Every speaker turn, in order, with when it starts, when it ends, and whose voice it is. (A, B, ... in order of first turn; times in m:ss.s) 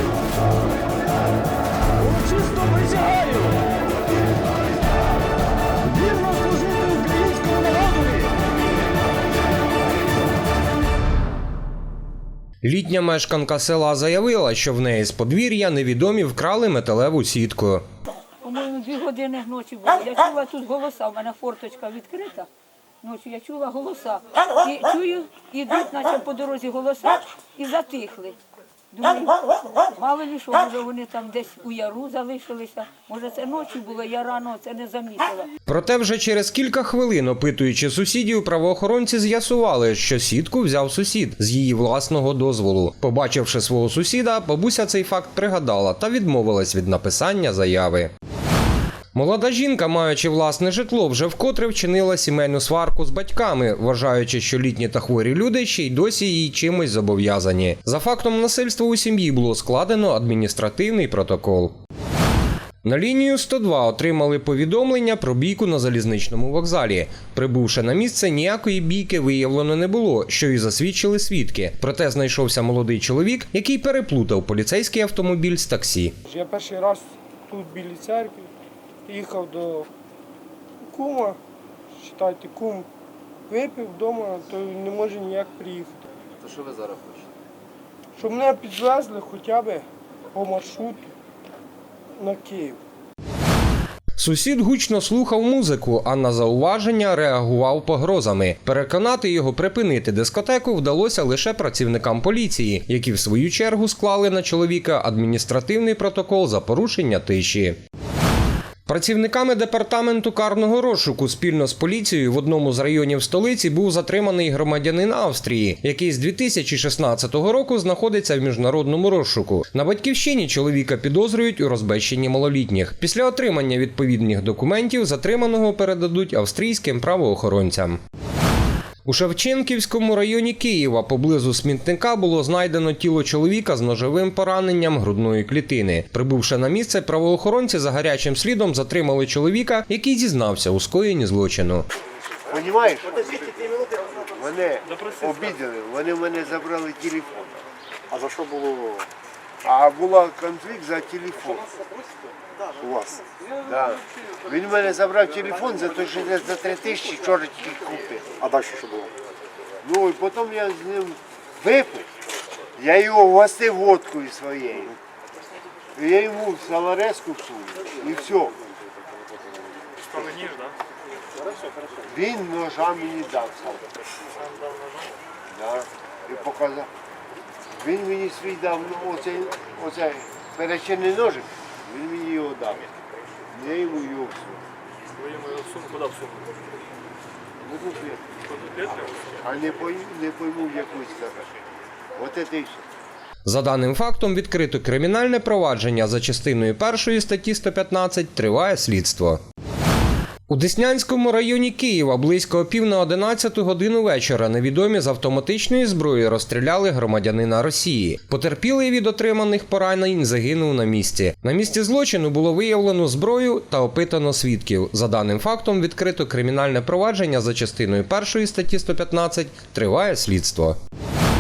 0:02.0-0:03.6 A
0:05.8-0:08.3 A
0:12.6-0:17.8 B
0:18.4-0:22.5 C
0:23.0-0:28.4 C
0:28.9-0:35.5 C
0:35.7-0:48.1 B
0:49.1-1:01.7 B
1:02.8-1:16.1 B
1:16.2-1:18.5 D
1:19.1-1:19.9 D
1:20.8-1:21.4 D
1:21.9-1:22.9 D
1:23.5-1:27.0 D
1:28.2-1:31.1 D
1:32.1-1:32.8 D
1:34.2-1:47.8 B
1:48.9-2:08.0 B
2:09.0-2:21.9 B
2:22.5-2:27.5 E
2:28.1-2:29.1 F
2:29.6-2:31.7 E
2:32.8-2:33.2 F
2:33.6-2:38.2 E
2:38.4-2:39.1 F
2:39.8-2:42.1 E
2:42.8-2:45.0 E
2:45.9-2:48.6 E
2:50.0-2:50.8 G
2:52.0-2:53.9 E
2:54.3-2:55.1 G
2:55.5-2:56.9 E
2:57.8-3:02.9 E
3:03.5-3:04.6 E
3:05.2-3:06.5 G
3:07.6-3:08.2 E
3:08.6-3:09.1 G
3:09.4-3:11.5 E
3:12.1-3:12.8 E
3:13.4-3:19.4 B
3:20.5-3:40.8 B